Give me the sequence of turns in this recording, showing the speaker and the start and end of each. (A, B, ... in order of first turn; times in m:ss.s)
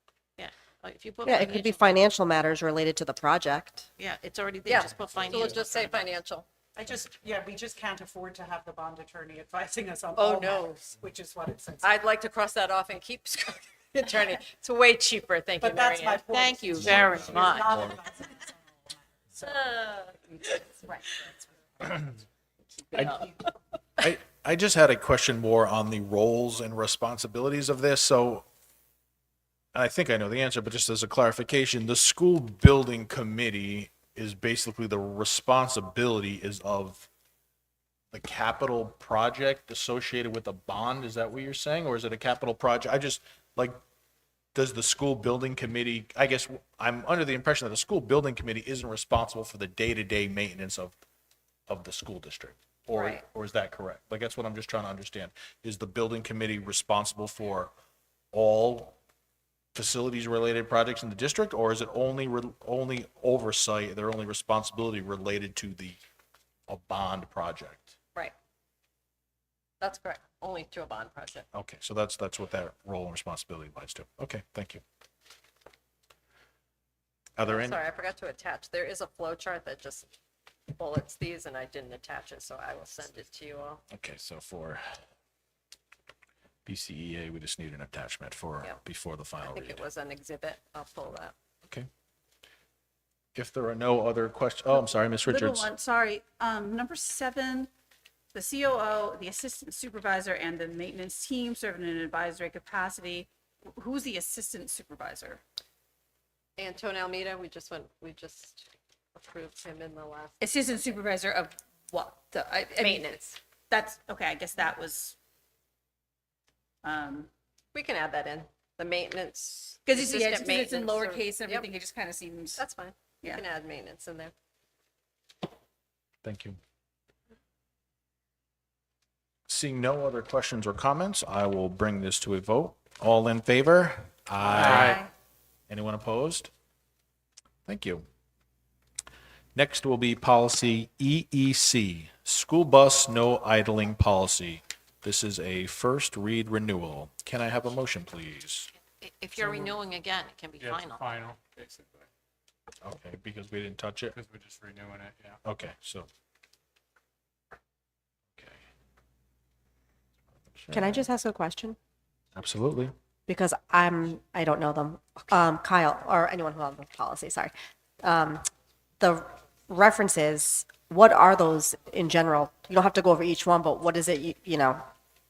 0:00.4-0:02.1 A
0:01.2-0:03.9 B
0:04.0-0:06.1 A
0:04.6-0:06.5 C
0:06.7-0:12.0 D
0:10.2-0:10.8 C
0:11.8-0:16.3 C
0:15.6-0:22.1 D
0:16.3-0:17.7 A
0:16.8-0:17.9 E
0:22.9-0:23.2 E
0:24.0-0:28.4 E
0:29.7-0:37.1 E
0:38.1-0:43.8 E
0:44.5-0:50.9 E
0:51.7-0:57.7 E
0:52.9-0:53.2 C
0:58.3-0:59.0 E
0:59.7-1:06.0 E
1:06.7-1:07.9 E
1:09.8-1:11.4 C
1:11.5-1:14.8 E
1:17.4-1:17.8 E
1:17.4-1:20.1 C
1:20.7-1:23.8 C
1:23.9-1:24.8 E
1:26.6-1:29.8 E
1:29.4-1:31.3 C
1:33.3-1:35.7 E
1:34.7-1:37.7 F
1:38.3-1:45.4 F
1:46.6-1:50.5 C
1:50.4-1:53.2 F
1:52.8-1:53.4 C
1:53.7-1:55.2 F
1:56.8-1:57.3 F
1:57.7-2:01.8 C
1:59.8-2:02.6 F
2:02.5-2:04.3 C
2:06.2-2:06.6 E
2:09.5-2:15.0 E
2:14.4-2:15.0 G
2:15.7-2:16.5 E
2:17.6-2:18.0 E
2:19.5-2:28.7 E
2:29.0-2:31.0 A
2:29.4-2:29.7 G
2:30.6-2:32.1 G
2:32.8-2:34.2 E
2:34.1-2:35.4 G
2:35.4-2:36.1 E
2:38.4-2:38.6 E
2:40.5-2:41.0 E
2:40.7-2:41.8 B
2:42.3-2:42.9 E
2:43.3-2:48.5 B
2:49.0-2:54.8 B